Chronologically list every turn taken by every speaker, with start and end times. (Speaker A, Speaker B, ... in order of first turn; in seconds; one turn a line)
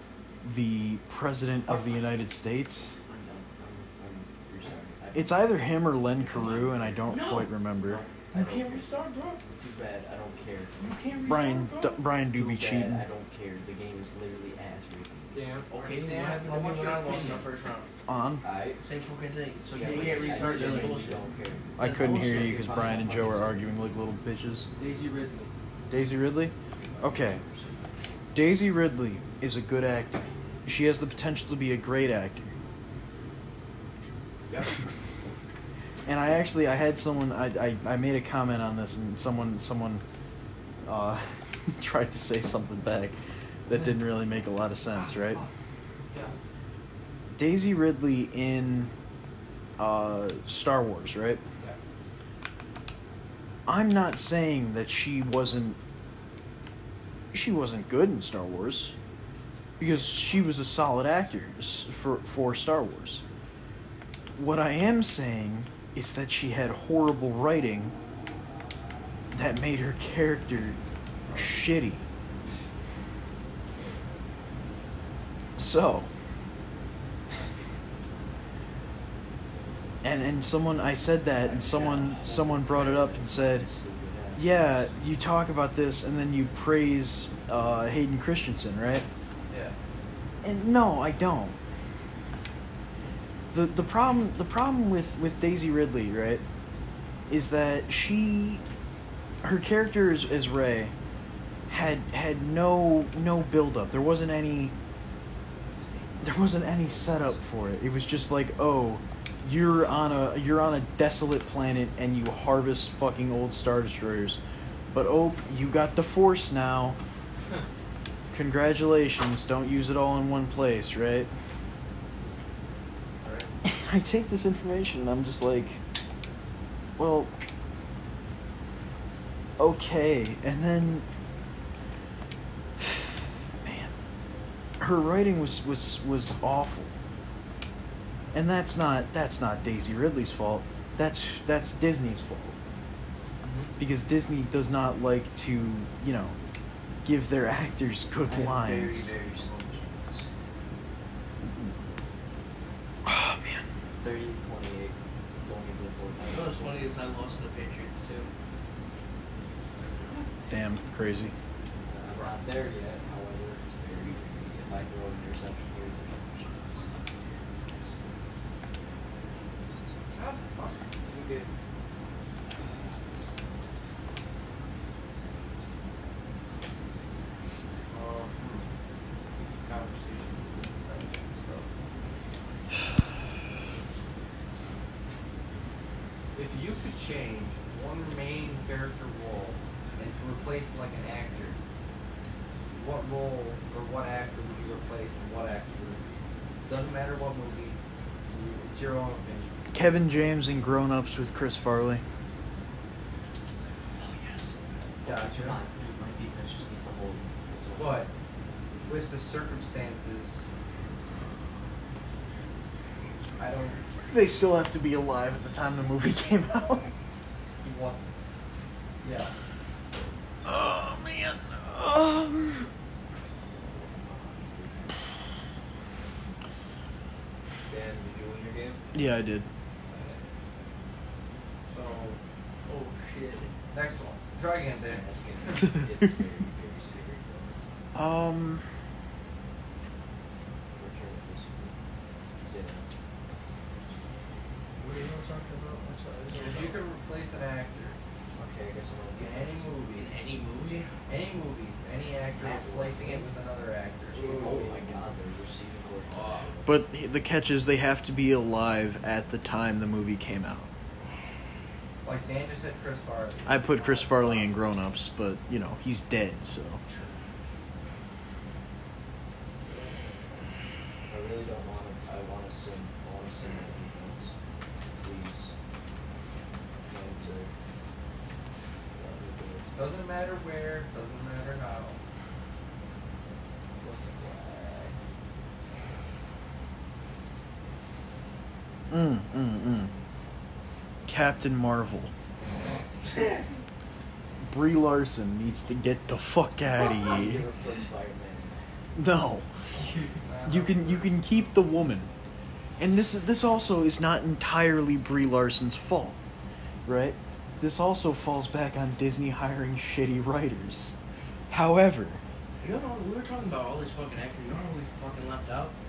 Speaker A: 0.4-3.0
Speaker B: 1.7-2.1
Speaker B: 3.0-7.2
Speaker A: 5.1-8.0
Speaker C: 7.0-7.5
Speaker B: 7.8-11.3
Speaker C: 8.3-9.4
Speaker C: 10.8-12.0
Speaker A: 11.2-13.1
Speaker B: 12.3-15.4
Speaker D: 15.3-17.5
Speaker C: 15.7-17.9
Speaker A: 18.1-18.4
Speaker B: 18.4-18.8
Speaker C: 18.8-21.2
Speaker D: 19.7-21.1
Speaker B: 19.8-23.7
Speaker A: 21.8-24.7
Speaker C: 21.8-22.8
Speaker D: 24.8-25.5
Speaker A: 25.9-27.4
Speaker B: 26.8-27.2
Speaker A: 28.3-32.5
Speaker A: 36.0-40.0
Speaker A: 40.8-45.4
Speaker D: 46.1-46.3
Speaker A: 47.3-48.9
Speaker A: 49.8-51.4
Speaker A: 53.6-55.8
Speaker A: 57.3-59.0
Speaker A: 59.8-63.2
Speaker A: 64.3-67.9
Speaker A: 69.3-70.8
Speaker A: 71.3-72.0
Speaker A: 75.5-76.1
Speaker A: 80.0-83.7
Speaker B: 81.4-85.0
Speaker A: 84.3-89.0
Speaker D: 89.5-89.8
Speaker A: 90.4-91.6
Speaker A: 93.5-96.4
Speaker A: 97.3-98.6
Speaker A: 99.4-100.9
Speaker A: 101.7-104.7
Speaker B: 106.0-107.7
Speaker A: 106.2-114.4
Speaker A: 114.9-117.0
Speaker A: 118.3-121.3
Speaker D: 123.2-123.5
Speaker A: 123.6-125.8
Speaker A: 127.0-127.3
Speaker A: 129.6-131.1
Speaker A: 132.8-133.9
Speaker A: 134.8-136.9
Speaker A: 138.3-142.6
Speaker D: 143.4-143.8
Speaker A: 143.8-146.4
Speaker A: 147.0-149.1
Speaker D: 148.2-150.3
Speaker A: 153.0-153.6
Speaker B: 154.0-156.9
Speaker C: 156.2-158.3
Speaker A: 160.5-161.3
Speaker B: 161.8-167.9
Speaker D: 170.1-171.5
Speaker D: 177.9-178.7
Speaker D: 179.6-181.7
Speaker D: 186.3-191.6
Speaker D: 192.7-196.0
Speaker D: 196.6-199.5
Speaker A: 199.7-202.0
Speaker B: 203.9-208.1
Speaker D: 205.0-205.6
Speaker D: 207.8-208.1
Speaker B: 208.7-209.1
Speaker D: 208.8-210.4
Speaker D: 213.4-213.8
Speaker A: 214.1-216.9
Speaker D: 217.6-218.1
Speaker D: 219.0-219.3
Speaker A: 220.4-222.7
Speaker B: 223.5-225.0
Speaker B: 227.6-229.1
Speaker A: 228.9-229.5
Speaker B: 229.8-230.8
Speaker D: 231.7-232.2
Speaker C: 232.6-233.5
Speaker D: 233.7-235.1
Speaker B: 234.7-237.7
Speaker A: 237.9-238.6
Speaker B: 240.7-241.8
Speaker B: 242.4-242.9
Speaker C: 244.8-246.8
Speaker D: 246.3-248.0
Speaker B: 248.3-249.8
Speaker D: 249.2-250.1
Speaker C: 249.9-250.9
Speaker D: 251.1-254.8
Speaker B: 252.3-253.3
Speaker B: 254.1-256.8
Speaker C: 256.1-256.4
Speaker A: 256.6-260.7
Speaker D: 262.0-264.8
Speaker A: 263.4-266.8
Speaker C: 266.9-267.1
Speaker B: 271.0-274.3
Speaker B: 275.0-275.5
Speaker B: 276.8-277.5
Speaker B: 278.9-279.8
Speaker D: 279.7-282.0
Speaker D: 283.8-284.5
Speaker B: 283.8-284.9
Speaker A: 288.9-289.9
Speaker A: 291.1-292.1
Speaker C: 293.1-293.4
Speaker A: 294.4-297.4
Speaker B: 297.0-298.6
Speaker A: 298.9-299.5
Speaker D: 300.2-301.2
Speaker A: 300.4-302.1
Speaker A: 302.8-306.2
Speaker A: 306.8-310.9
Speaker A: 311.5-312.2
Speaker C: 312.6-315.8